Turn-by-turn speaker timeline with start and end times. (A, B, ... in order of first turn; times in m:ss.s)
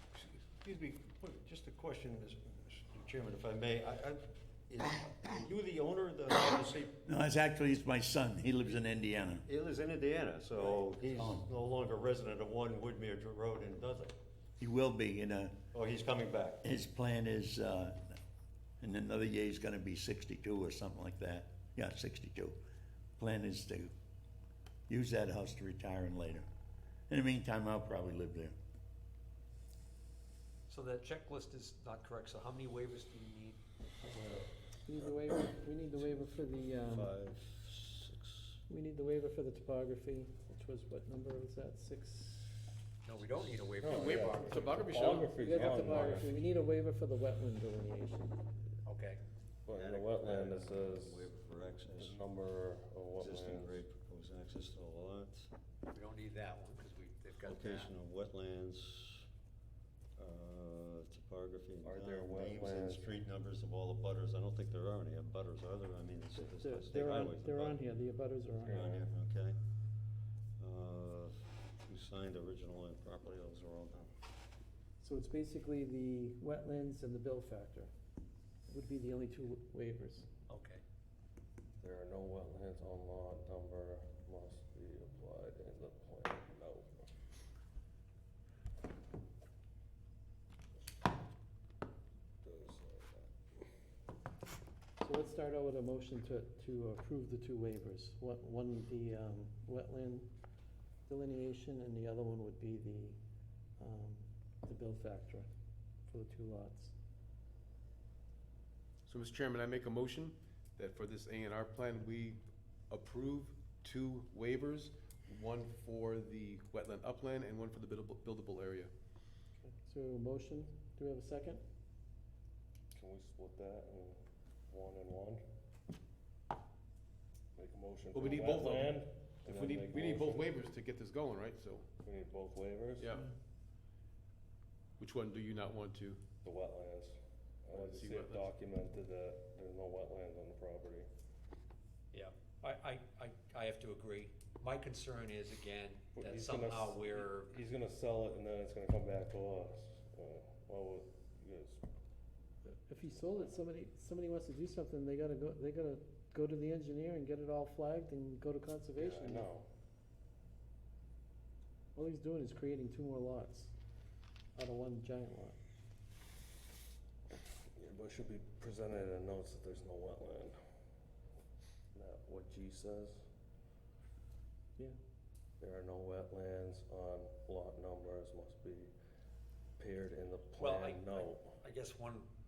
0:00.2-0:07.0 A
0:07.0-0:09.4 B
0:09.4-0:14.1 A
0:11.0-0:11.5 B
0:14.6-0:15.6 B
0:15.7-0:16.6 A
0:16.6-0:18.2 B
0:18.8-0:22.6 B
0:23.2-0:23.9 B
0:24.9-0:26.5 B
0:27.1-0:28.6 B
0:30.7-0:33.6 C
0:34.0-0:34.5 D
0:34.8-0:37.1 E
0:36.0-0:38.6 A
0:38.7-0:42.5 E
0:43.0-0:45.1 C
0:43.8-0:46.3 D
0:43.9-0:45.9 F
0:45.0-0:48.4 E
0:48.8-0:49.2 C
0:49.6-0:51.3 D
0:49.8-0:52.2 A
0:52.0-0:53.8 D
0:53.2-0:55.5 A
0:55.9-0:57.9 C
0:57.4-0:59.2 A
1:00.2-1:07.8 A
1:01.8-1:03.2 D
1:06.3-1:09.0 E
1:08.6-1:09.0 D
1:08.7-1:09.6 A
1:10.6-1:14.1 A
1:15.0-1:17.9 E
1:18.7-1:20.3 E
1:20.5-1:20.8 C
1:21.8-1:26.9 D
1:32.4-1:33.3 D
1:35.0-1:40.3 E
1:41.1-1:43.2 E
1:43.8-1:45.5 E
1:46.0-1:46.9 E
1:49.1-1:52.4 F
1:52.9-1:58.9 F
1:59.6-2:01.6 E
2:02.9-2:04.2 D
2:04.7-2:05.4 D
2:07.5-2:10.5 D
2:08.1-2:11.9 F
2:12.0-2:13.2 D
2:13.0-2:13.3 F
2:15.0-2:16.2 F
2:16.4-2:21.1 D
2:17.7-2:18.5 F
2:22.1-2:27.5 C
2:26.2-2:31.8 D
2:32.6-2:39.5 E
2:39.0-2:39.6 D
2:41.9-2:43.7 E
2:44.5-2:45.6 E
2:47.8-2:50.6 D
2:51.9-2:53.2 D
2:55.6-2:58.9 D
2:59.8-3:01.6 D
3:00.6-3:02.3 C